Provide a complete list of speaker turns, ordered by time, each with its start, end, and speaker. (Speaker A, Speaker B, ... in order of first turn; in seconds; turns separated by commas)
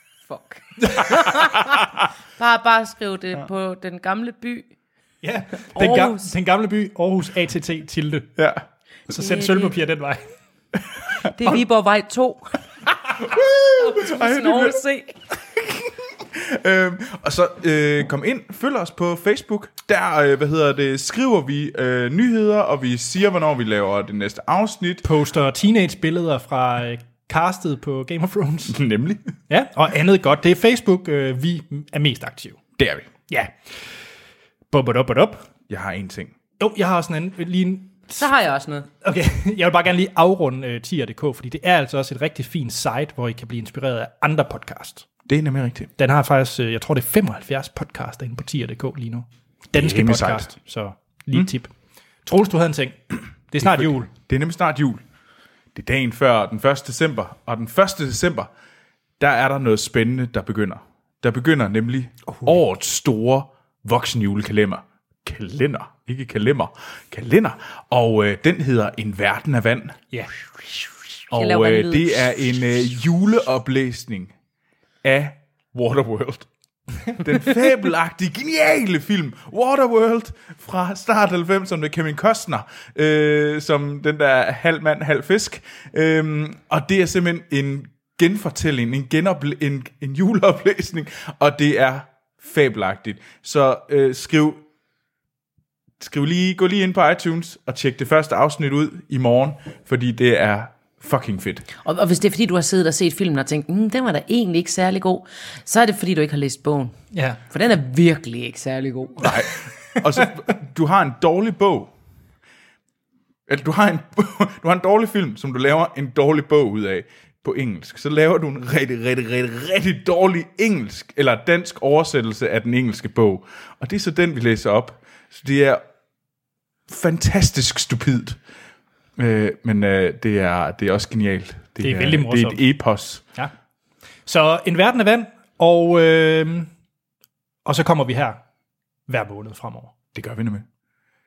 Speaker A: 0.3-4.7, Speaker B: 5.2-8.3, Speaker A: 5.8-6.3, Speaker C: 8.4-8.6, Speaker B: 9.1-10.2, Speaker A: 9.2-9.7, Speaker A: 11.3-12.6, Speaker C: 13.2-25.1, Speaker A: 13.8-15.2, Speaker B: 25.0-28.8, Speaker C: 28.7-29.2, Speaker B: 29.5-32.6, Speaker C: 32.8-33.1, Speaker B: 34.7-35.5, Speaker C: 35.7-36.4, Speaker B: 36.6-38.3, Speaker A: 38.2-38.9, Speaker B: 39.0-45.1, Speaker C: 45.3-45.9, Speaker B: 46.0-51.7, Speaker C: 49.8-50.5, Speaker B: 52.3-54.1, Speaker C: 53.6-55.0, Speaker C: 55.8-58.5, Speaker C: 59.2-70.0, Speaker A: 71.3-72.2, Speaker C: 71.3-74.3, Speaker C: 75.0-76.5, Speaker C: 77.1-94.6, Speaker C: 96.0-101.7, Speaker A: 101.8-107.0, Speaker B: 107.1-107.4, Speaker A: 107.5-109.3, Speaker C: 109.2-111.9, Speaker C: 113.5-125.8, Speaker C: 126.9-128.4, Speaker C: 129.2-133.2, Speaker B: 131.8-132.6, Speaker B: 134.3-136.7, Speaker B: 137.7-138.4, Speaker B: 139.1-139.9, Speaker C: 140.1-140.7